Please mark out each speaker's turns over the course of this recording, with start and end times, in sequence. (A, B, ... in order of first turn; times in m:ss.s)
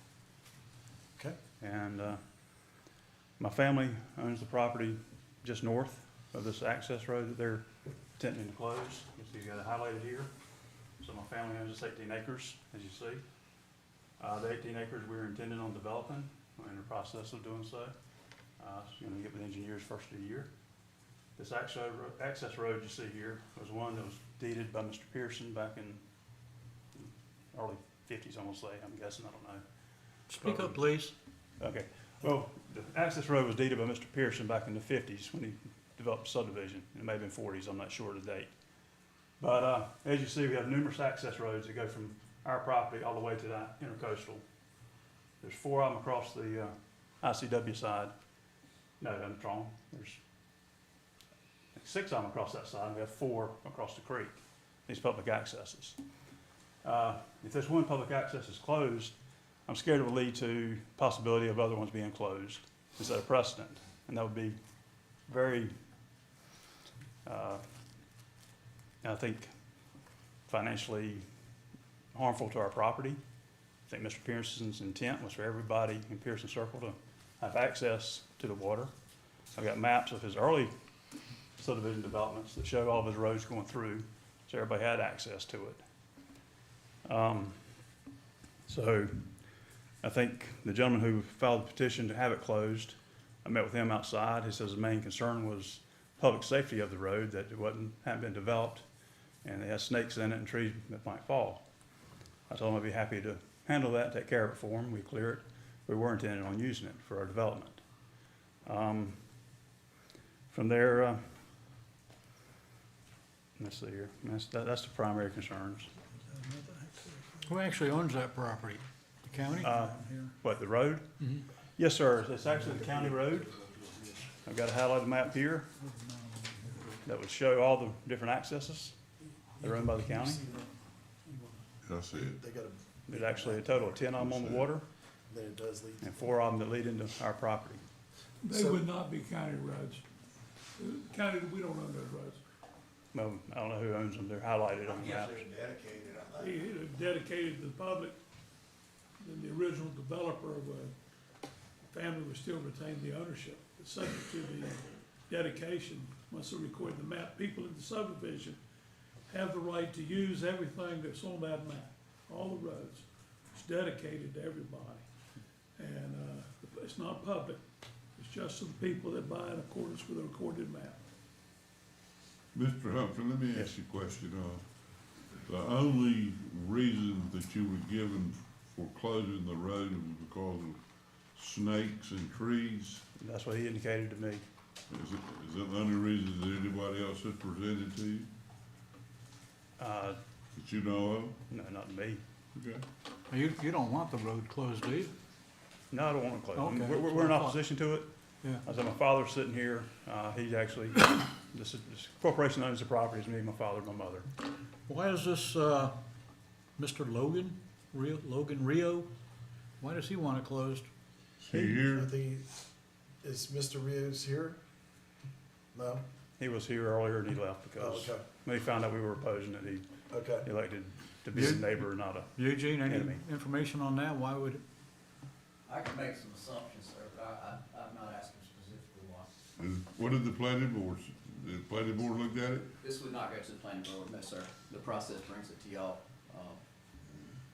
0:01.6-0:02.2 A
0:03.4-0:10.3 A
0:11.0-0:13.2 A
0:14.2-0:17.9 A
0:18.6-0:20.5 A
0:21.4-0:26.0 A
0:27.0-0:29.6 A
0:30.3-0:31.1 B
0:30.4-0:30.8 A
0:31.6-0:38.5 A
0:39.4-0:44.4 A
0:45.4-0:48.1 A
0:49.0-0:50.2 A
0:51.8-0:54.3 A
0:54.9-0:56.0 A
0:56.8-0:59.2 A
0:59.7-1:04.6 A
1:05.3-1:05.7 A
1:07.2-1:07.6 A
1:09.0-1:09.5 A
1:10.5-1:11.2 A
1:12.1-1:13.2 A
1:13.9-1:18.9 A
1:19.6-1:20.7 A
1:21.6-1:25.8 A
1:27.0-1:27.6 A
1:28.7-1:29.3 A
1:30.0-1:38.8 A
1:39.4-1:41.6 A
1:42.5-1:47.8 A
1:48.7-1:49.2 A
1:50.5-1:51.2 A
1:53.6-1:55.9 A
1:56.5-2:00.3 B
1:59.6-2:01.1 A
2:01.8-2:03.6 A
2:04.4-2:05.7 A
2:05.9-2:06.8 B
2:07.0-2:09.0 A
2:09.6-2:10.4 A
2:10.1-2:10.7 C
2:11.8-2:12.4 D
2:12.1-2:14.0 C
2:13.1-2:14.9 A
2:14.1-2:14.7 D
2:15.3-2:16.2 C
2:16.0-2:17.8 A
2:18.4-2:20.0 E
2:18.5-2:18.8 C
2:20.8-2:22.4 E
2:23.1-2:25.5 A
2:25.9-2:26.2 C
2:26.3-2:28.1 E
2:29.2-2:30.9 E
2:31.9-2:38.6 E
2:39.3-2:45.0 E
2:45.8-2:47.6 E
2:48.2-2:51.0 E
2:52.5-2:54.6 D
2:55.5-3:00.8 D
3:01.4-3:03.0 D
3:03.2-3:04.4 A
3:04.9-3:08.3 D
3:09.8-3:10.2 A
3:10.5-3:11.4 D
3:11.5-3:12.2 A
3:12.5-3:12.8 D
3:13.3-3:15.1 B
3:15.9-3:18.1 A
3:16.6-3:17.6 B
3:18.6-3:24.3 A
3:24.9-3:26.0 B
3:26.8-3:29.1 B
3:29.8-3:30.9 B
3:31.4-3:32.1 D
3:31.5-3:32.5 C
3:33.2-3:34.6 C
3:35.7-3:36.0 C
3:36.4-3:39.9 A
3:37.8-3:38.2 C
3:40.1-3:40.5 C
3:40.4-3:43.2 A
3:41.3-3:44.6 B
3:45.7-3:49.3 F
3:49.6-3:52.7 D
3:52.7-3:56.6 F